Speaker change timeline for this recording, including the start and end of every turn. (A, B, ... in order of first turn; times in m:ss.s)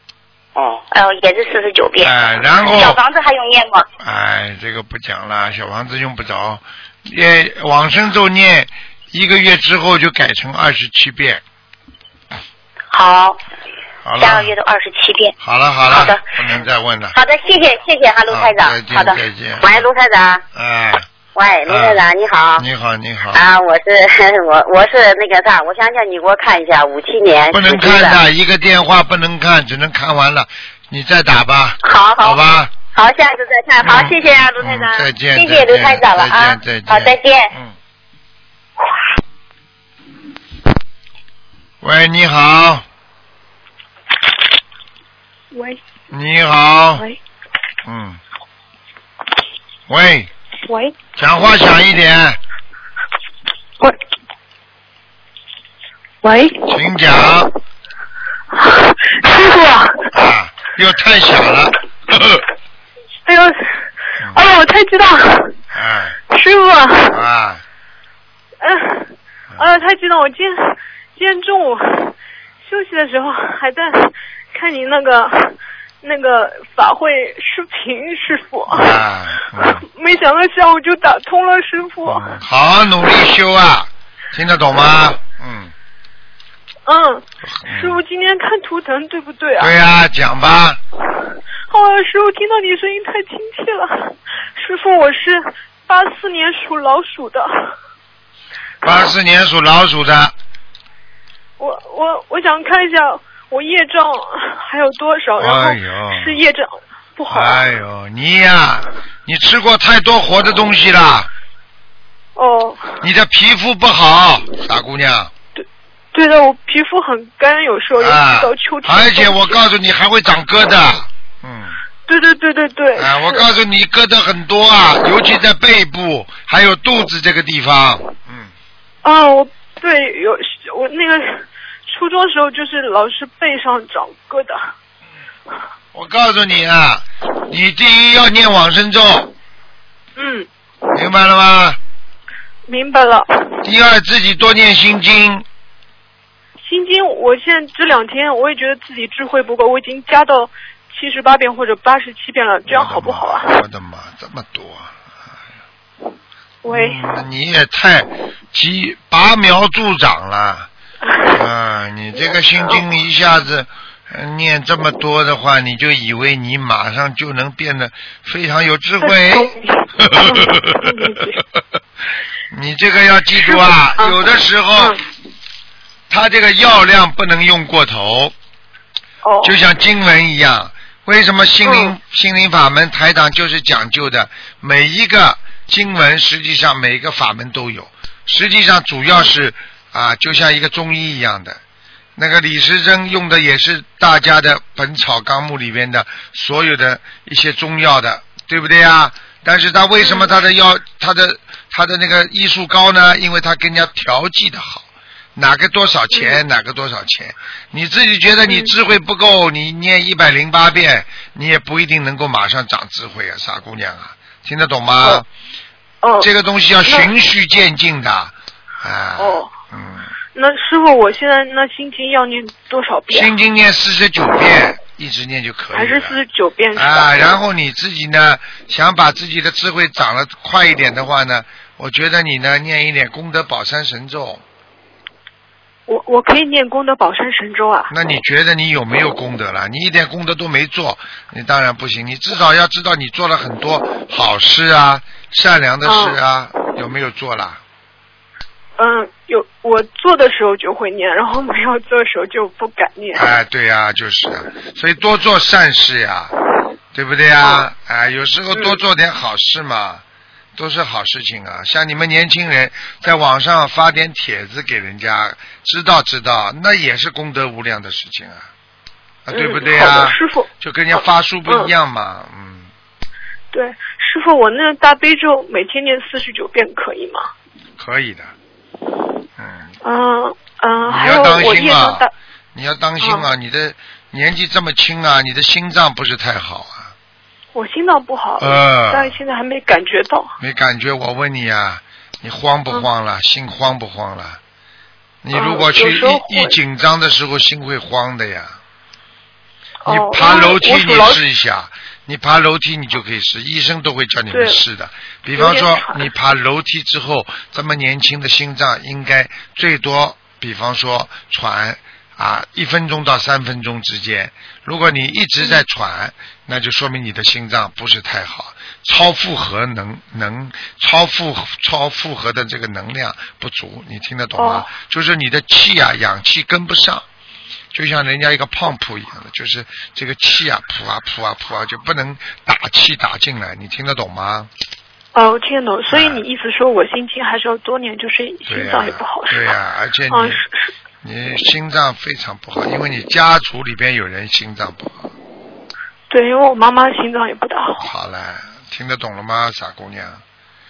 0:00.9-0:03.9 A
0:02.0-0:03.0 B
0:04.0-0:11.4 B
0:12.9-0:13.4 A
0:14.0-0:14.5 B
0:14.2-0:15.3 A
0:15.4-0:17.2 B
0:15.9-0:16.2 A
0:17.1-0:19.2 A
0:18.3-0:19.8 B
0:19.6-0:20.4 C
0:20.5-0:21.1 B
0:21.3-0:22.6 C
0:21.7-0:22.0 B
0:22.6-0:23.4 B
0:23.3-0:28.2 C
0:27.5-0:32.7 B
0:31.9-0:32.4 C
0:31.9-0:32.3 A
0:33.0-0:37.5 A
0:33.0-0:34.5 C
0:33.8-0:37.7 B
0:41.8-0:42.8 B
0:45.5-0:45.8 D
0:46.1-0:47.0 B
0:47.8-0:48.2 B
0:49.9-0:50.3 B
0:50.7-0:51.0 D
0:51.2-0:52.4 B
0:56.2-0:56.7 D
0:56.7-0:57.5 B
0:58.5-1:00.1 D
1:00.1-1:02.4 B
1:03.3-1:05.5 D
1:05.7-1:06.2 B
1:06.3-1:07.2 D
1:07.1-1:07.6 B
1:08.6-1:19.0 D
1:18.7-1:19.8 B
1:19.6-1:22.3 D
1:22.0-1:25.7 B
1:26.8-1:29.7 D
1:27.4-1:28.0 B
1:29.6-1:30.8 B
1:31.7-1:37.8 D
1:38.8-1:40.3 B
1:41.6-1:47.7 D
1:45.4-1:46.4 B
1:47.3-1:51.3 B
1:52.4-1:53.0 D
1:53.0-1:55.3 B
1:55.5-1:59.6 D
1:58.0-2:01.8 B
2:02.1-2:03.5 D
2:03.0-2:08.5 B
2:09.0-2:14.7 D
2:15.9-2:19.3 B
2:20.2-2:20.5 D
2:20.9-2:21.8 B
2:22.7-2:23.6 D
2:23.6-2:25.4 B
2:26.6-2:33.5 D
2:32.7-2:35.1 B
2:36.6-2:37.0 D
2:36.7-2:40.7 B
2:41.0-2:41.4 D
2:41.2-2:50.9 B
2:49.0-2:51.4 D
2:52.5-2:55.0 B
2:53.4-2:54.2 D
2:56.1-2:58.3 B
2:59.2-2:59.6 D
2:59.4-3:11.6 B
3:01.6-3:01.9 D
3:12.2-3:35.2 B
3:20.0-3:20.3 D
3:26.1-3:26.4 D
3:28.5-3:28.7 D
3:36.0-3:36.3 D
3:36.2-3:40.1 B
3:36.8-3:37.1 D
3:39.2-3:39.5 D
3:40.3-3:43.3 D
3:43.1-3:46.2 B
3:45.7-3:47.2 D
3:46.7-3:54.4 B
3:55.9-3:57.9 D
3:57.9-4:07.6 B
4:05.8-4:06.2 D
4:08.8-4:13.3 D
4:13.1-4:16.3 B
4:16.9-4:20.0 B
4:17.4-4:17.7 D
4:18.5-4:18.8 D
4:20.6-4:28.5 B
4:29.2-4:32.7 B
4:29.3-4:31.7 D
4:33.5-4:37.3 D
4:37.8-4:38.3 B
4:39.4-4:39.8 B
4:39.8-4:42.1 D
4:40.8-4:46.9 B
4:43.0-4:43.3 D
4:47.5-4:50.3 D
4:48.4-4:49.2 B
4:50.4-4:54.4 B
4:55.2-4:58.6 B
4:55.3-4:56.6 D
4:59.8-5:01.2 D
4:59.8-5:27.0 B
5:04.3-5:04.6 D
5:05.3-5:06.1 D
5:24.4-5:24.7 D
5:27.7-5:34.5 B
5:35.1-5:39.5 D
5:35.9-5:36.2 B
5:38.5-5:40.4 B
5:40.1-5:40.7 D
5:41.0-5:45.1 B
5:46.1-5:47.9 D
5:47.8-5:50.2 B